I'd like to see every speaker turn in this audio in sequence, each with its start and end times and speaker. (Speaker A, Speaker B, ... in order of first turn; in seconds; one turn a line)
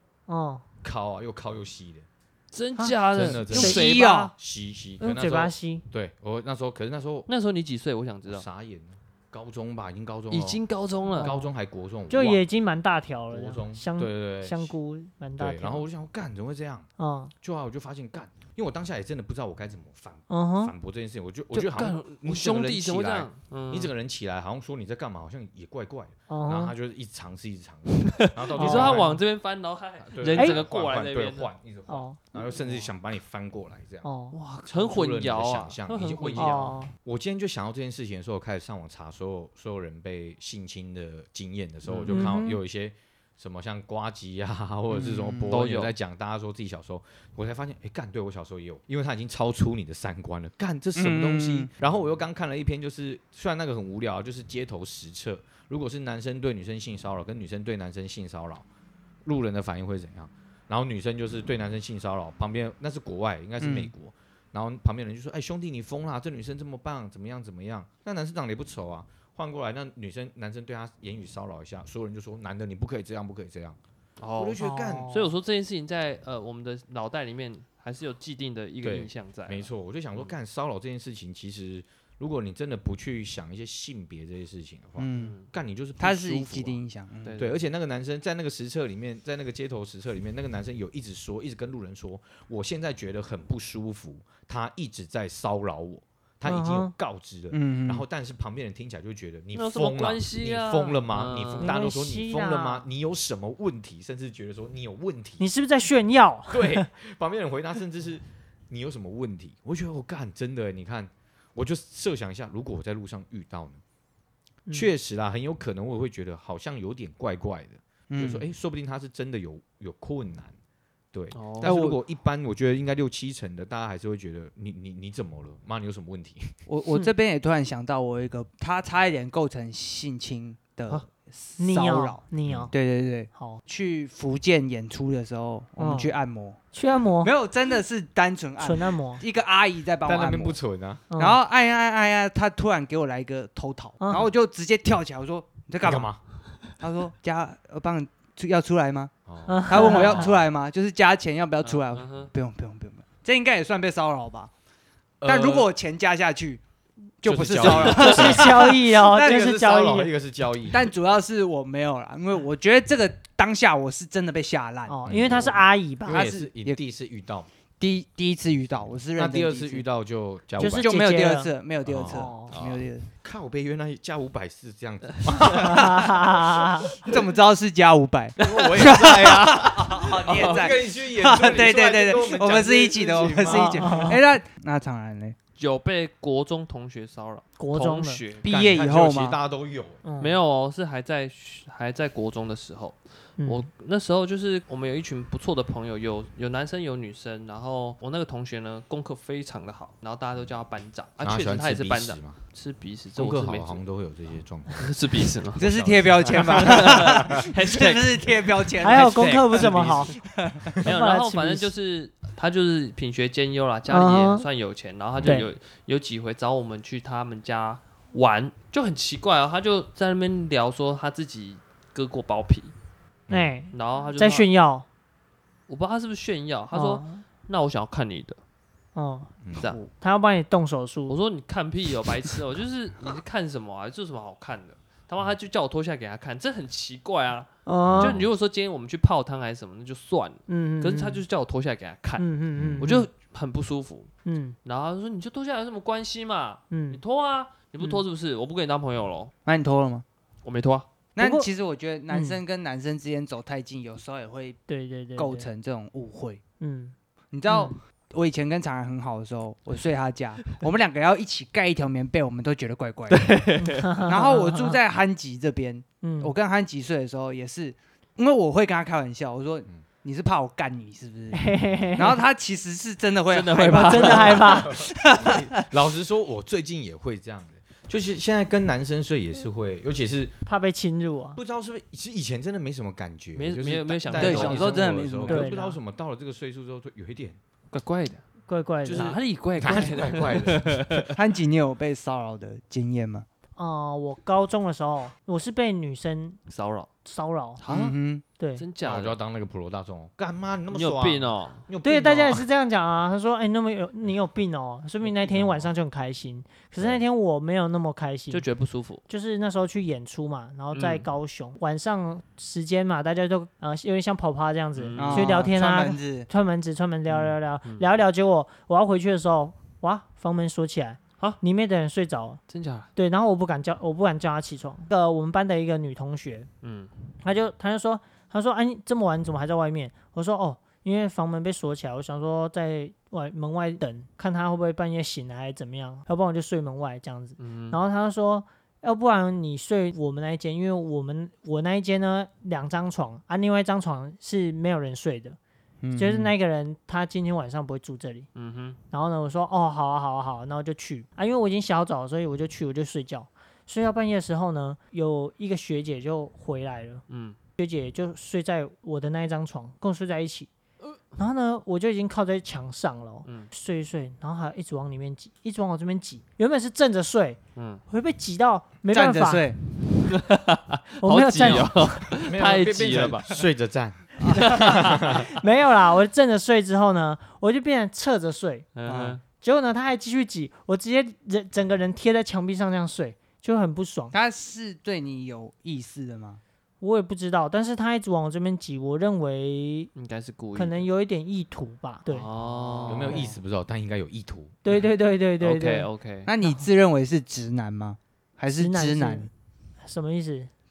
Speaker A: 0.3-0.6
Speaker B: 0.8-2.1
Speaker C: 2.5-4.2
Speaker B: 3.1-7.3
Speaker A: 3.5-4.3
Speaker D: 3.5-4.3
Speaker A: 5.0-5.8
Speaker C: 7.3-8.4
Speaker B: 8.3-12.4
Speaker C: 10.3-11.3
Speaker A: 11.2-11.5
Speaker A: 12.1-15.8
Speaker B: 13.3-14.7
Speaker B: 15.4-16.9
Speaker A: 17.0-17.3
Speaker B: 17.4-29.2
Speaker A: 20.3-20.7
Speaker C: 21.5-23.9
Speaker A: 26.3-26.7
Speaker C: 28.0-31.5
Speaker A: 28.6-29.1
Speaker B: 30.0-34.1
Speaker A: 30.3-30.6
Speaker A: 31.9-32.2
Speaker A: 34.0-34.4
Speaker C: 34.3-36.7
Speaker B: 34.6-58.6
Speaker A: 36.4-36.9
Speaker C: 41.8-42.3
Speaker A: 42.1-42.6
Speaker D: 44.9-45.5
Speaker C: 45.5-45.9
Speaker D: 51.0-51.7
Speaker B: 59.2-73.8
Speaker D: 63.6-63.9
Speaker C: 74.2-80.3
Speaker B: 74.4-75.1
Speaker A: 74.6-75.3
Speaker B: 78.8-86.8
Speaker D: 85.0-85.3
Speaker C: 85.2-85.5
Speaker D: 86.0-87.4
Speaker C: 87.2-87.5
Speaker B: 87.3-105.4
Speaker A: 96.4-96.9
Speaker D: 97.5-98.0
Speaker C: 99.5-101.7
Speaker A: 101.6-102.8
Speaker A: 105.4-106.9
Speaker B: 106.5-113.8
Speaker B: 114.7-120.5
Speaker D: 118.1-118.4
Speaker B: 121.1-126.5
Speaker C: 121.3-121.7
Speaker D: 121.6-122.0
Speaker D: 126.7-132.2
Speaker A: 131.6-132.7
Speaker B: 132.4-132.7
Speaker D: 132.7-136.6
Speaker A: 133.3-133.6
Speaker A: 135.8-136.1
Speaker A: 136.7-137.3
Speaker D: 137.2-140.6
Speaker A: 138.6-139.2
Speaker B: 140.0-141.0
Speaker A: 141.1-141.4
Speaker D: 141.2-146.1
Speaker A: 144.0-144.3
Speaker B: 145.8-146.2
Speaker D: 146.7-149.1
Speaker B: 149.3-150.4
Speaker A: 149.5-150.3
Speaker D: 149.7-154.5
Speaker C: 151.6-152.3
Speaker B: 155.2-155.7
Speaker D: 155.2-156.6
Speaker D: 157.2-159.4
Speaker B: 157.2-160.9
Speaker A: 157.7-160.1
Speaker D: 160.7-165.0
Speaker A: 164.9-166.3
Speaker B: 165.1-167.5
Speaker D: 166.1-166.8
Speaker D: 167.8-169.8
Speaker B: 169.2-170.9
Speaker A: 170.6-171.5
Speaker D: 170.7-173.1
Speaker B: 171.8-176.7
Speaker A: 172.1-172.5
Speaker C: 175.2-175.6
Speaker A: 175.6-176.9
Speaker D: 177.0-185.4
Speaker B: 178.4-184.1
Speaker C: 180.3-180.5
Speaker A: 183.4-184.2
Speaker C: 185.6-188.5
Speaker A: 187.6-188.2
Speaker D: 188.4-189.4
Speaker B: 188.4-190.0
Speaker A: 190.0-190.4
Speaker C: 190.2-203.8
Speaker A: 193.4-193.7
Speaker B: 201.2-202.4
Speaker B: 203.2-207.5
Speaker C: 204.7-205.7
Speaker D: 205.5-210.7
Speaker C: 206.3-208.3
Speaker A: 208.8-210.1
Speaker B: 209.2-210.1
Speaker A: 210.8-211.7
Speaker C: 210.8-222.7
Speaker A: 213.9-214.4
Speaker A: 215.2-215.5
Speaker A: 223.3-224.8
Speaker C: 223.7-224.5
Speaker C: 225.7-228.4
Speaker A: 226.7-227.2
Speaker A: 228.9-231.2
Speaker B: 229.4-229.7
Speaker C: 229.5-229.8
Speaker C: 231.1-242.3
Speaker A: 237.7-238.2
Speaker B: 237.8-238.2
Speaker A: 240.5-241.2
Speaker A: 242.2-243.1
Speaker B: 242.5-242.9
Speaker C: 242.8-244.1
Speaker A: 244.2-244.6
Speaker C: 244.6-249.3
Speaker A: 246.7-247.0
Speaker D: 249.4-250.0
Speaker C: 250.4-250.9
Speaker D: 251.2-254.6
Speaker A: 251.2-251.5
Speaker A: 252.1-252.4
Speaker A: 254.7-255.5
Speaker D: 255.2-256.4
Speaker A: 256.6-256.9
Speaker D: 257.3-263.4
Speaker A: 257.5-257.8
Speaker C: 263.1-264.1
Speaker A: 263.6-264.8
Speaker D: 264.0-271.4
Speaker A: 266.0-266.3
Speaker A: 271.3-272.2
Speaker D: 271.9-275.6
Speaker C: 273.3-274.6
Speaker A: 273.7-274.8
Speaker B: 274.4-280.3
Speaker A: 280.4-281.4
Speaker B: 281.3-287.4
Speaker C: 283.3-285.1
Speaker D: 284.1-285.5
Speaker A: 285.2-285.8
Speaker C: 287.7-288.2
Speaker A: 288.5-289.2
Speaker B: 288.8-291.0
Speaker C: 288.9-291.1
Speaker D: 291.1-293.2
Speaker A: 293.6-296.4
Speaker C: 296.5-296.9
Speaker A: 297.0-297.6
Speaker C: 297.6-297.9
Speaker D: 297.7-298.2
Speaker A: 298.4-298.6
Speaker C: 298.6-299.2
Speaker B: 298.8-302.4
Speaker C: 300.7-301.6
Speaker A: 301.8-308.4
Speaker B: 305.2-305.7
Speaker C: 308.3-309.0
Speaker A: 309.1-322.4
Speaker C: 310.7-311.1
Speaker C: 314.8-315.4
Speaker D: 315.0-316.3
Speaker C: 317.1-317.9
Speaker C: 322.5-322.9
Speaker A: 322.9-326.5
Speaker C: 326.6-326.9
Speaker A: 327.2-345.4
Speaker C: 337.4-337.8
Speaker D: 345.8-346.3
Speaker A: 345.9-348.3
Speaker C: 348.3-348.8
Speaker A: 348.9-357.0
Speaker C: 357.1-357.4
Speaker A: 357.6-360.5
Speaker A: 361.1-369.5
Speaker C: 363.2-363.5
Speaker C: 367.6-367.8
Speaker D: 368.9-369.6
Speaker C: 370.0-373.4
Speaker A: 371.0-372.1
Speaker B: 372.2-375.3
Speaker C: 374.2-375.2
Speaker A: 374.5-378.7
Speaker C: 378.7-379.2
Speaker D: 378.9-379.2
Speaker A: 379.4-384.1
Speaker D: 384.1-386.4
Speaker A: 386.8-389.9
Speaker C: 389.9-390.8
Speaker A: 390.5-392.3
Speaker C: 392.1-393.3
Speaker B: 392.9-394.6
Speaker A: 394.6-395.9
Speaker C: 395.4-396.3
Speaker D: 396.2-399.3
Speaker A: 396.4-396.6
Speaker A: 398.6-399.3
Speaker A: 399.8-400.5